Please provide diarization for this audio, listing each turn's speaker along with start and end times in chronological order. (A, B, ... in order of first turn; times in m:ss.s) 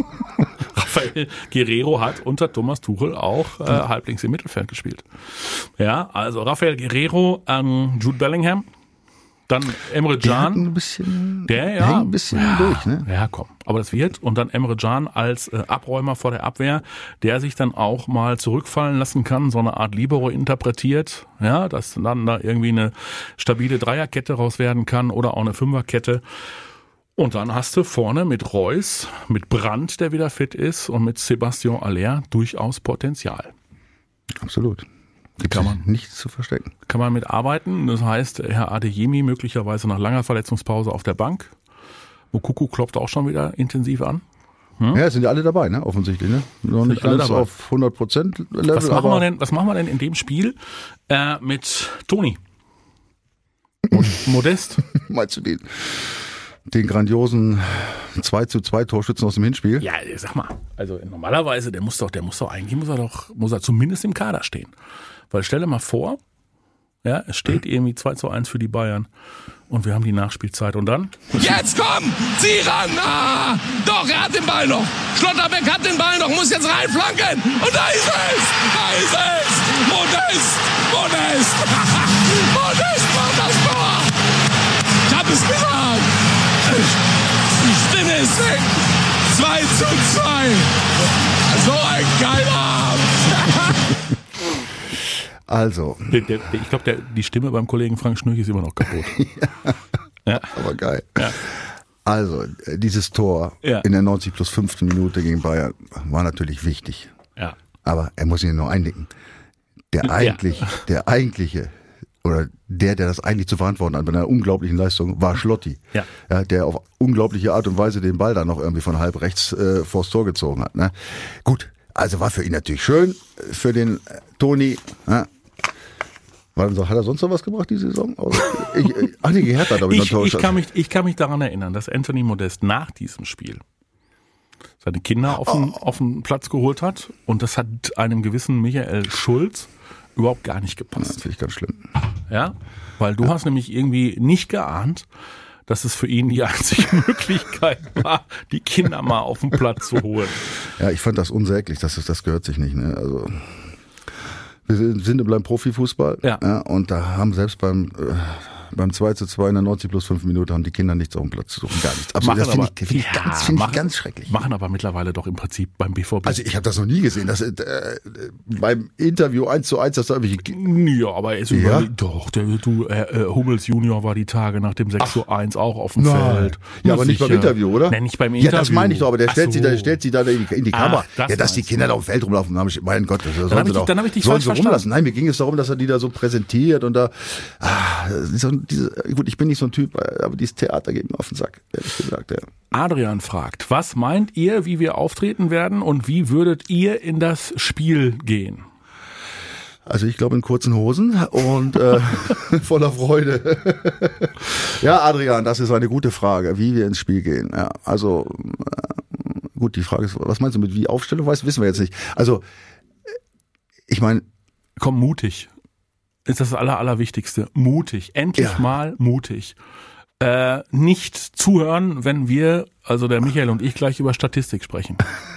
0:00.7-0:08.7 A
0:09.5-0:10.6 A
0:10.2-0:13.1 B
0:11.4-0:26.2 A
0:27.2-0:33.5 A
0:34.4-0:34.8 B
0:35.4-0:36.7 B
0:35.4-0:35.8 A
0:36.9-0:41.5 A
0:42.3-0:44.2 A
0:44.9-0:49.3 B
0:46.8-0:47.5 A
0:48.7-0:50.6 A
0:51.1-0:52.4 A
0:53.9-0:54.2 B
0:53.9-0:54.8 A
0:54.8-0:59.8 B
0:59.8-1:04.7 A
1:05.3-1:06.2 A
1:07.0-1:09.1 A
1:09.7-1:11.4 A
1:11.3-1:24.2 C
1:25.0-1:27.0 C
1:27.6-1:34.0 C
1:35.5-1:36.2 B
1:36.1-1:39.2 A
1:39.0-1:39.8 B
1:40.2-1:40.6 A
1:40.4-1:47.1 B
1:47.8-1:49.1 B
1:49.9-2:05.3 B
1:50.0-1:50.8 A
2:06.6-2:10.6 B
2:09.8-2:13.6 A
2:14.8-2:21.2 A
2:21.0-2:21.8 B
2:22.3-2:25.0 A
2:25.7-2:30.5 A
2:30.8-2:33.7 B
2:34.7-2:44.3 B
2:42.2-2:46.4 A
2:46.2-2:50.6 B
2:50.4-3:00.0 A
2:51.5-2:51.9 B
2:56.0-3:12.5 B
3:00.7-3:01.7 A
3:03.4-3:04.9 A
3:12.7-3:18.6 A
3:19.8-3:32.4 B
3:33.9-3:34.2 B
3:34.8-3:35.5 A
3:36.2-3:39.6 A
3:38.4-3:38.6 B
3:40.2-3:45.1 A